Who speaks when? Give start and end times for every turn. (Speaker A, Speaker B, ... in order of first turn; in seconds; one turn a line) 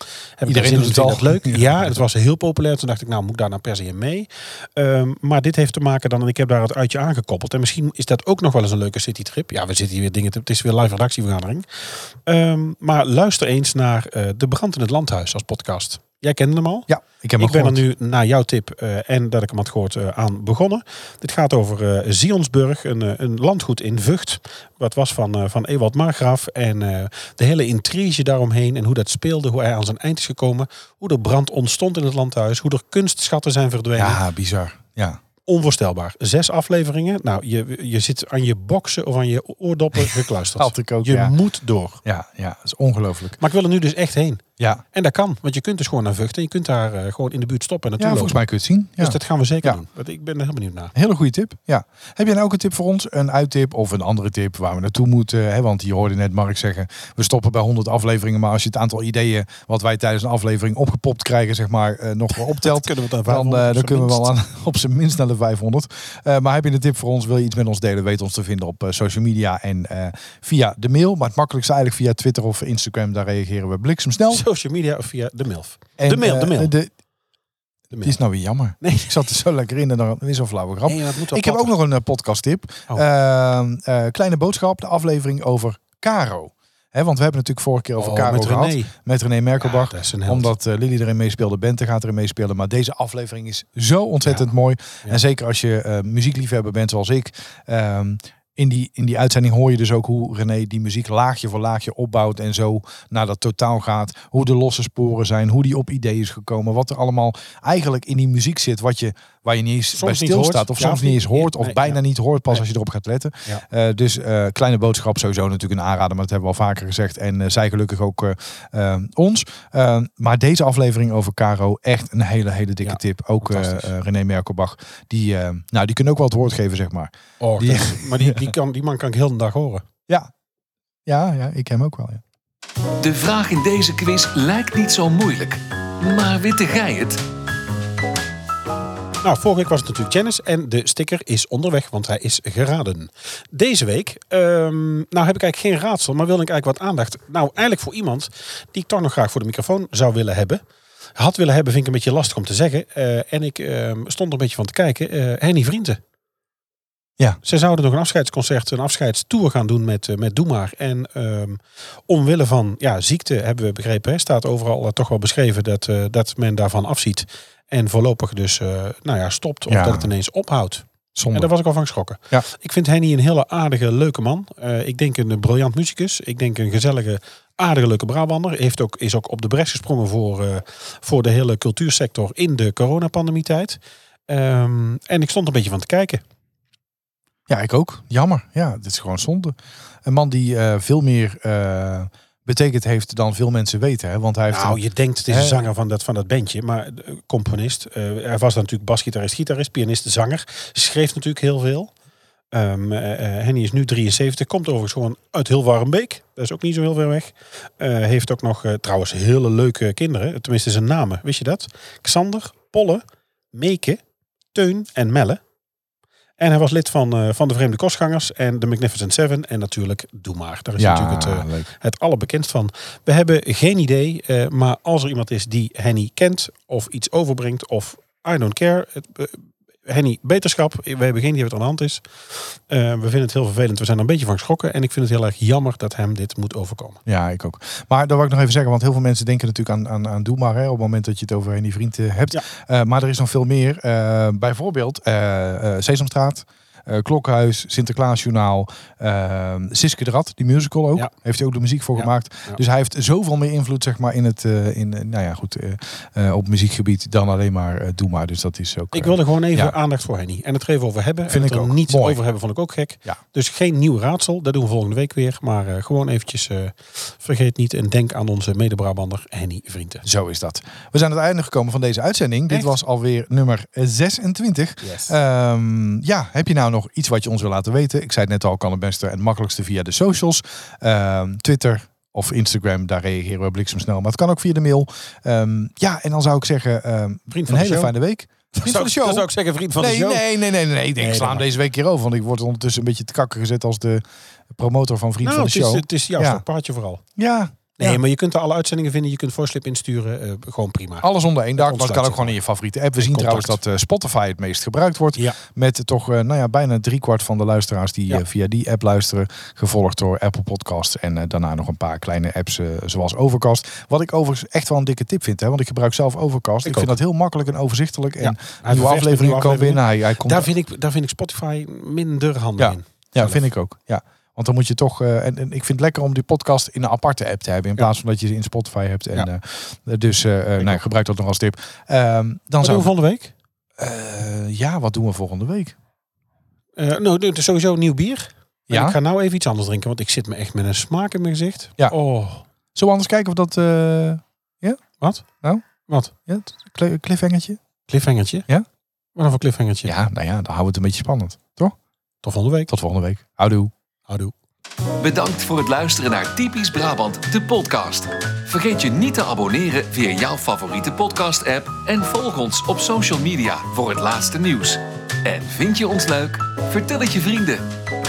Speaker A: 0.4-34.2
Speaker B: 0.5-1.9
Speaker B: 16.9-17.8
Speaker B: 34.0-35.2
Speaker A: 35.4-42.0
Speaker B: 40.6-41.4
Speaker B: 42.0-43.4
Speaker A: 43.4-44.4
Speaker A: 44.9-48.4
Speaker B: 48.0-49.8
Speaker A: 49.0-50.9
Speaker B: 50.9-74.4
Speaker A: 62.3-64.4
Speaker A: 74.3-76.7
Speaker B: 76.0-76.9
Speaker A: 77.9-78.2
Speaker B: 78.0-128.5
Speaker A: 78.8-79.2
Speaker A: 80.8-81.7
Speaker A: 88.0-88.9
Speaker A: 89.6-90.5
Speaker A: 109.9-112.0
Speaker A: 122.8-123.9
Speaker A: 127.4-129.8
Speaker B: 131.1-132.2
Speaker C: 133.0-137.2
Speaker A: 139.2-150.6
Speaker A: 151.2-156.0
Speaker A: 157.4-186.2
Speaker B: 169.7-170.1
Speaker B: 171.2-171.5
Speaker B: 187.5-195.6
Speaker A: 194.5-201.9
Speaker A: 202.5-214.0
Speaker A: 214.5-215.4
Speaker A: 216.4-237.0
Speaker B: 220.8-221.7
Speaker B: 237.1-259.8
Speaker A: 251.9-252.6
Speaker A: 258.9-270.1
Speaker B: 261.3-262.2
Speaker B: 270.0-296.4
Speaker A: 272.5-272.7
Speaker A: 274.8-275.1
Speaker A: 287.3-287.9
Speaker A: 288.6-290.3
Speaker A: 290.9-291.4
Speaker A: 295.2-297.0
Speaker B: 297.1-298.0
Speaker A: 297.8-302.4
Speaker B: 301.0-320.5
Speaker A: 303.0-303.6
Speaker A: 316.6-316.9
Speaker A: 318.2-323.4
Speaker B: 322.6-332.9
Speaker A: 330.6-330.9
Speaker A: 332.6-333.3
Speaker B: 333.8-335.8
Speaker A: 336.8-342.4
Speaker B: 338.7-339.0
Speaker B: 342.7-344.8
Speaker A: 345.8-346.1
Speaker B: 346.3-347.6
Speaker A: 347.9-348.5
Speaker A: 349.1-349.9
Speaker B: 349.8-351.7
Speaker A: 352.2-352.7
Speaker B: 352.7-353.7
Speaker A: 354.1-354.3
Speaker C: 355.0-367.7